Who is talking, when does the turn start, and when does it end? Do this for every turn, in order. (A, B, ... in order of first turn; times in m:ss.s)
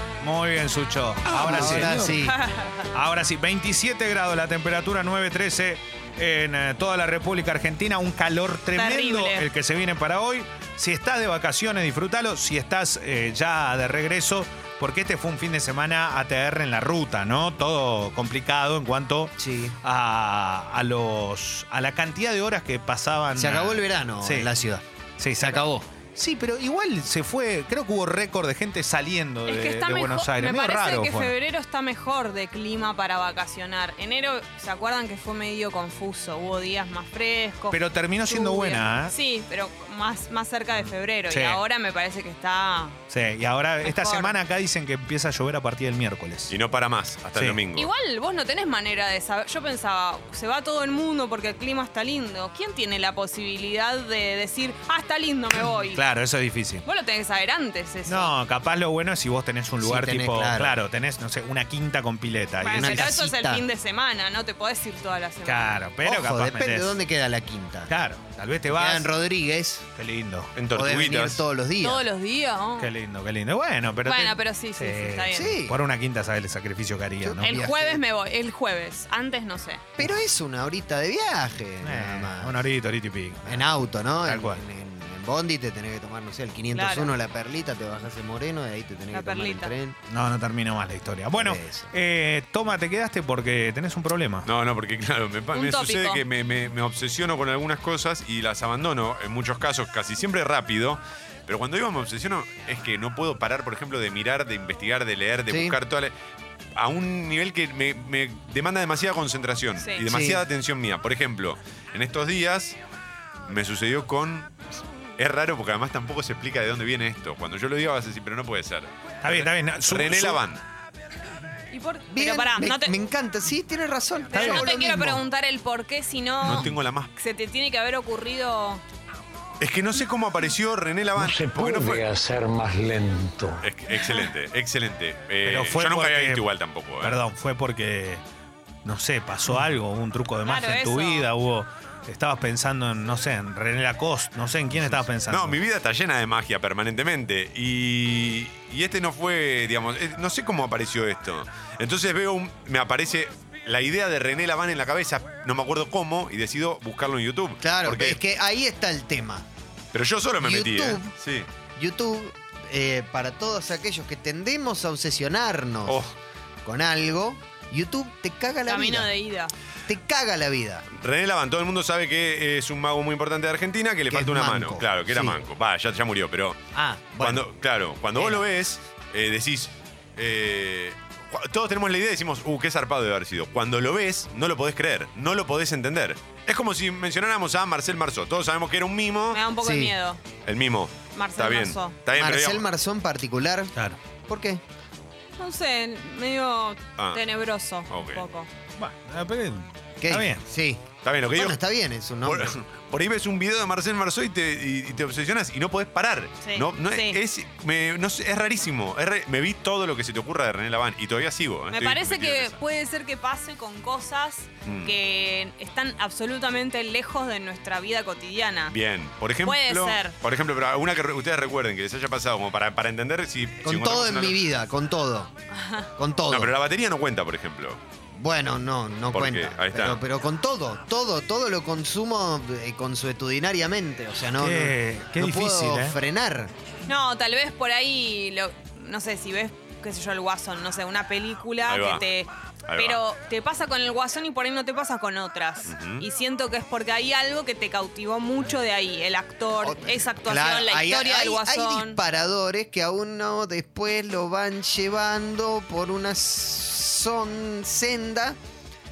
0:00.2-0:02.2 A
0:01.3-0:02.4 B
0:02.1-0:02.8 C
0:02.9-0:24.5 A
0:08.7-0:09.5 C
0:19.4-0:19.8 B
0:23.3-0:24.8 B
0:25.2-0:31.3 A
0:25.4-0:25.8 B
0:29.5-0:43.0 C
0:37.7-0:39.1 A
0:41.3-0:41.6 A
0:43.1-0:46.6 A
0:43.8-0:44.3 C
0:46.5-0:47.9 D
0:47.3-0:47.6 A
0:47.7-0:56.0 C
0:55.9-0:56.8 A
0:56.8-0:58.3 C
0:58.0-1:03.1 A
0:59.8-1:00.8 B
1:02.6-1:05.8 C
1:02.7-1:03.6 B
1:05.4-1:07.0 A
1:06.0-1:07.9 B
1:07.9-1:09.1 A
1:08.7-1:09.9 B
1:10.0-1:10.5 A
1:10.6-1:11.4 D
1:10.7-1:12.0 B
1:11.8-1:12.9 C
1:12.8-1:17.7 A
1:14.0-1:15.5 C
1:15.3-1:15.8 B
1:17.2-1:18.0 B
1:17.5-1:19.8 C
1:20.0-1:22.5 B
1:21.8-1:24.6 A
1:23.4-1:30.0 B
1:26.7-1:27.1 C
1:29.1-1:29.7 C
1:30.1-1:34.5 A
1:31.4-1:31.9 B
1:34.4-1:46.1 D
1:35.5-1:36.2 C
1:45.5-1:45.7 B
1:46.8-1:52.8 D
1:50.0-1:50.4 B
1:53.5-1:54.5 D
1:55.2-2:00.6 D
1:59.2-2:00.4 A
2:01.7-2:02.9 C
2:02.1-2:05.2 B
2:04.3-2:08.8 C
2:04.3-2:04.7 A
2:06.4-2:07.1 D
2:09.6-2:12.1 D
2:11.2-2:13.7 E
2:13.6-2:17.2 D
2:15.4-2:16.4 A
2:17.0-2:18.2 A
2:18.8-2:25.6 A
2:20.4-2:21.3 C
2:24.7-2:38.2 D
2:37.6-2:39.4 B
2:39.9-2:41.5 D
2:40.4-2:41.1 B
2:41.8-2:46.0 B
2:45.8-2:46.1 D
2:46.6-2:49.1 B
2:48.7-2:49.5 C
2:49.9-2:50.8 B
2:50.9-2:56.6 D
2:54.1-2:55.4 B
2:56.7-2:57.4 B
2:57.2-3:09.4 D
2:58.1-2:58.4 B
3:09.3-3:10.2 C
3:09.6-3:09.9 B
3:10.4-3:12.7 D
3:11.1-3:12.0 C
3:12.1-3:13.7 B
3:14.3-3:14.6 B
3:15.4-3:18.5 C
3:17.9-3:18.2 D
3:18.7-3:20.4 A
3:20.0-3:22.5 B
3:21.0-3:21.6 D
3:22.2-3:32.6 D
3:26.4-3:27.2 C
3:31.7-3:38.7 C
3:34.6-3:34.9 D
3:38.7-3:44.4 D
3:39.4-3:40.2 C
3:43.6-3:45.3 B
3:45.5-3:45.9 C
3:46.0-3:46.5 B
3:46.3-3:47.8 D
3:48.2-3:56.5 B
3:49.1-3:50.0 D
3:54.4-3:56.0 A
3:56.8-4:12.0 C
4:01.7-4:02.0 D
4:02.7-4:03.0 D
4:05.7-4:06.0 D
4:09.6-4:18.4 B